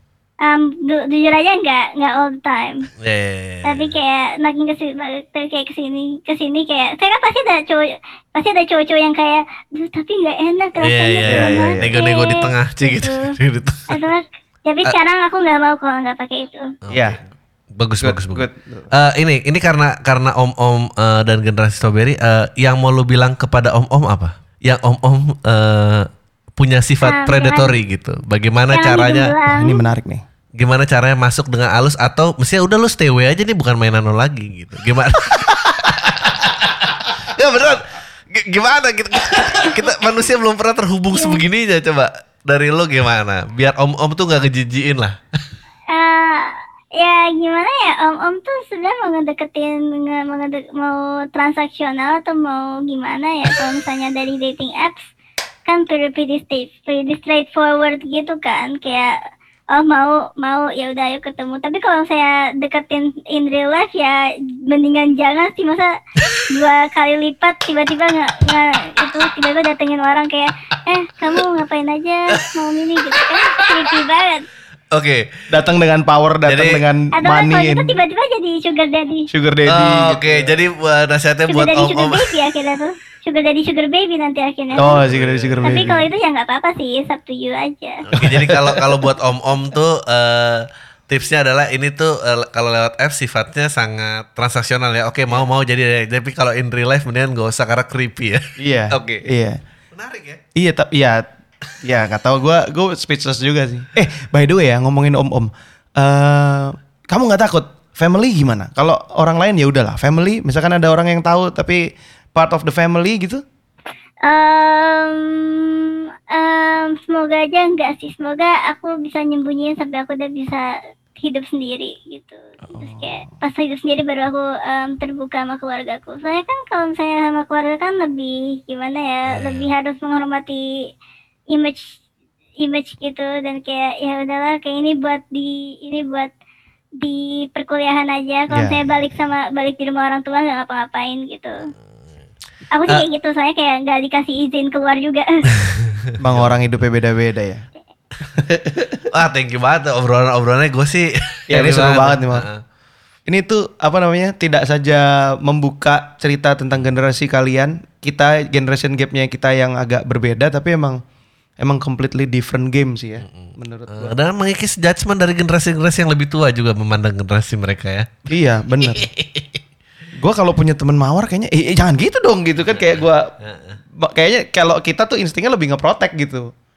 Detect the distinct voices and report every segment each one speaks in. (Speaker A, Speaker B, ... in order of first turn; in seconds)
Speaker A: 0.4-2.9, 3.6-13.4, 13.9-16.7, 27.0-27.7, 28.7-29.8, 41.1-41.4, 45.9-55.1, 55.7-59.2, 59.7-66.0, 66.5-74.5, 77.2-79.3, 81.5-85.0, 85.6-88.1, 114.2-120.7, 121.2-130.7, 131.5-132.0, 132.6-136.3, 137.0-141.6, 142.7-145.6
Speaker B: 3.0-4.0, 10.8-14.0, 16.9-17.2, 17.8-29.4, 30.6-45.2, 73.1-74.0, 74.9-75.3, 76.5-76.8, 79.7-82.4, 84.8-85.8, 88.1-99.3, 99.9-100.4, 129.3-129.7, 145.7-146.5, 149.0-152.6, 163.3-168.1, 168.8-169.6, 173.4-173.8
Speaker C: 11.3-11.8, 16.9-17.2, 18.0-18.9, 29.5-30.2, 75.5-78.0, 79.3-80.6, 84.8-86.0, 88.2-89.0, 98.6-99.6, 100.5-101.3, 101.8-113.4, 122.7-123.2, 138.5-138.9, 146.2-147.6, 148.4-149.0, 151.5-152.5, 153.3-161.0, 161.6-164.2, 168.3-169.1, 170.2-173.3, 174.0-176.5